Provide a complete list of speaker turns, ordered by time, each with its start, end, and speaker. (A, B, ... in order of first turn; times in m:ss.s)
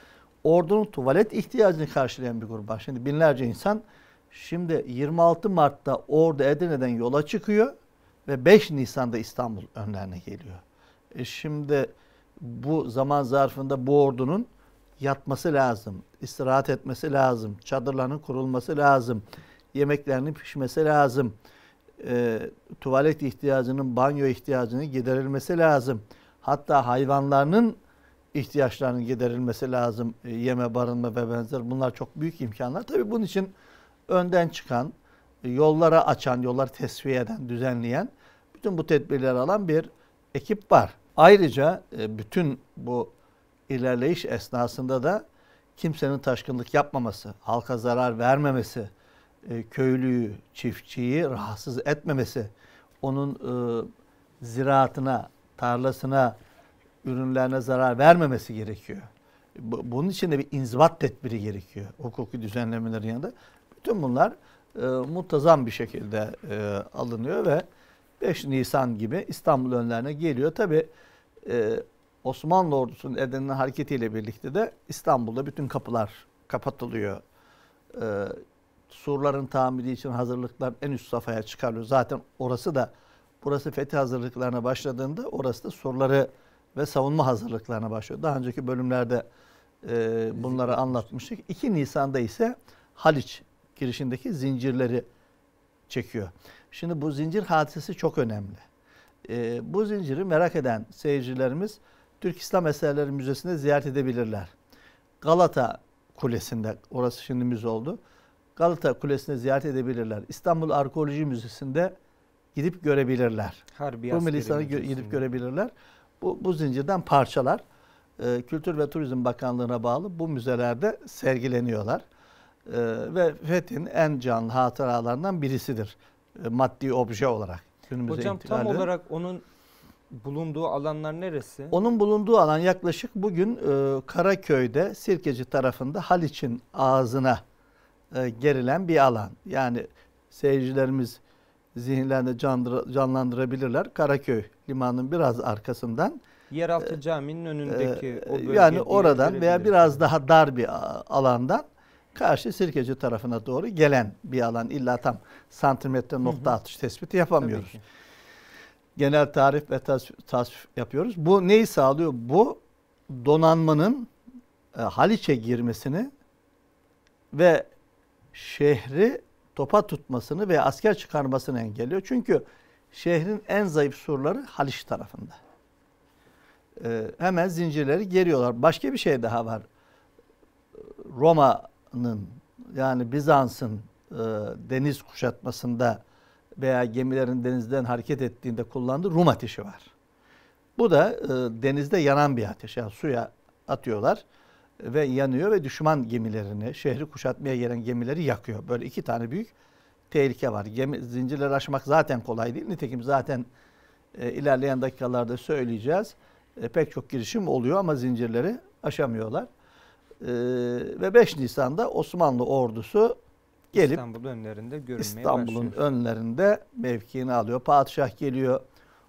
0:00.4-0:07.7 A
0:08.3-0:10.6 A
0:11.2-0:14.5 A
0:15.0-0:21.4 A
0:22.0-0:27.8 A
0:28.3-0:33.6 A
0:34.1-0:43.1 A
0:43.7-0:45.2 A
0:45.8-0:48.9 A
0:49.4-0:53.9 A
0:54.4-0:56.4 A
0:57.0-1:07.6 A
1:08.2-1:10.9 A
1:11.4-1:17.2 A
1:17.9-1:29.2 A
1:29.8-1:35.0 A
1:30.4-1:31.1 B
1:35.9-1:38.6 A
1:39.3-1:44.5 A
1:45.2-1:48.0 A
1:48.6-1:51.9 A
1:52.6-1:57.6 A
1:53.7-1:55.2 B
1:58.2-2:02.0 A
2:02.7-2:08.9 A
2:08.1-2:09.4 B
2:10.1-2:11.8 B
2:11.7-2:17.4 A
2:18.1-2:21.2 A
2:21.8-2:26.2 A
2:26.5-2:30.0 B
2:27.7-2:31.6 A
2:32.2-2:37.8 A
2:36.2-2:36.6 B
2:37.4-2:37.8 B
2:39.0-2:44.1 A
2:44.7-2:46.1 A
2:47.3-2:47.7 A
2:48.3-2:55.4 A
2:56.8-2:59.6 A
3:01.0-3:06.0 A
3:06.6-3:09.9 A
3:10.8-3:14.2 A
3:14.8-3:19.5 A
3:20.1-3:23.5 A
3:24.2-3:29.5 A
3:30.2-3:33.2 A
3:33.7-3:35.8 B
3:33.7-3:34.0 A
3:35.0-3:38.6 A